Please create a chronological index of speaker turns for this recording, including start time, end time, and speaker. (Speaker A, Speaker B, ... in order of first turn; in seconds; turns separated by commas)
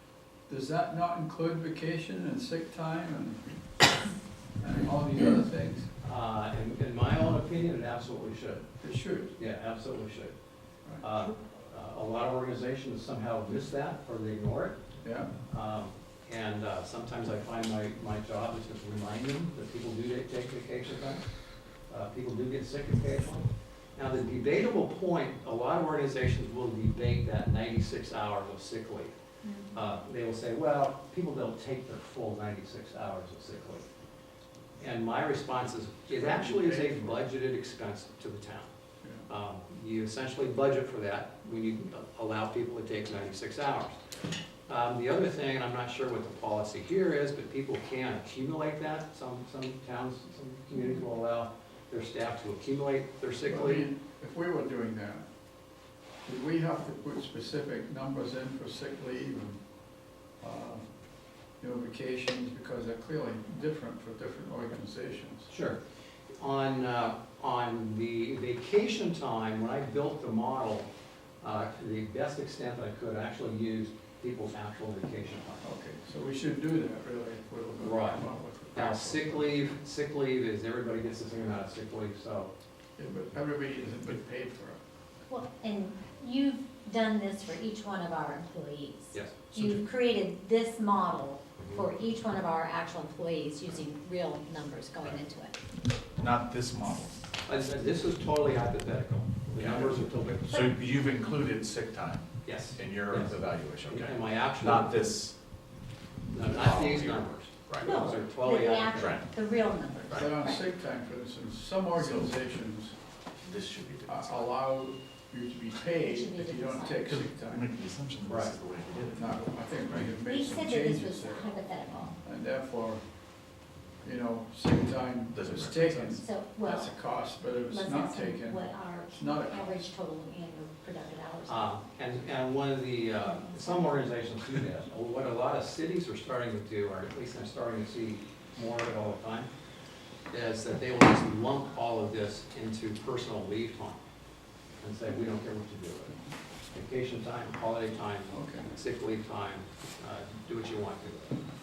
Speaker A: 0.5-3.6, Speaker A: 4.6-5.9, Speaker B: 6.0-8.7, Speaker A: 8.8-9.3, Speaker B: 9.4-10.3, Speaker B: 11.0-14.8, Speaker A: 15.0-15.3, Speaker B: 15.5-21.3, Speaker B: 21.9-29.1, Speaker C: 29.4-29.7, Speaker B: 29.7-33.9, Speaker B: 34.8-38.7, Speaker A: 36.1-37.2, Speaker A: 39.0-39.3, Speaker B: 39.3-44.0, Speaker B: 44.7-53.9, Speaker A: 53.5-55.3, Speaker A: 56.2-59.6, Speaker A: 60.4-60.9, Speaker A: 61.6-65.5, Speaker B: 65.5-65.8, Speaker B: 66.4-70.9, Speaker B: 71.4-75.6, Speaker A: 75.6-79.8, Speaker B: 77.8-82.5, Speaker A: 83.0-84.8, Speaker C: 85.3-95.6, Speaker B: 89.1-89.8, Speaker B: 91.6-91.9, Speaker D: 96.2-97.2, Speaker B: 97.5-100.7, Speaker D: 99.5-105.4, Speaker B: 102.5-105.1, Speaker B: 106.3-109.2, Speaker D: 106.4-107.9, Speaker C: 107.8-110.6, Speaker D: 108.9-109.3, Speaker A: 110.1-113.0, Speaker D: 112.0-112.5, Speaker D: 113.4-114.5, Speaker A: 114.1-117.7, Speaker C: 116.0-117.1, Speaker D: 117.1-119.4, Speaker B: 118.3-118.5, Speaker A: 119.1-123.0, Speaker C: 120.2-122.2, Speaker A: 124.0-129.8, Speaker D: 125.3-126.2, Speaker C: 126.2-127.0, Speaker C: 127.5-131.8, Speaker B: 131.5-139.5, Speaker C: 133.2-133.9, Speaker B: 140.3-144.0, Speaker B: 144.8-146.2, Speaker B: 146.7-151.4, Speaker A: 148.3-148.7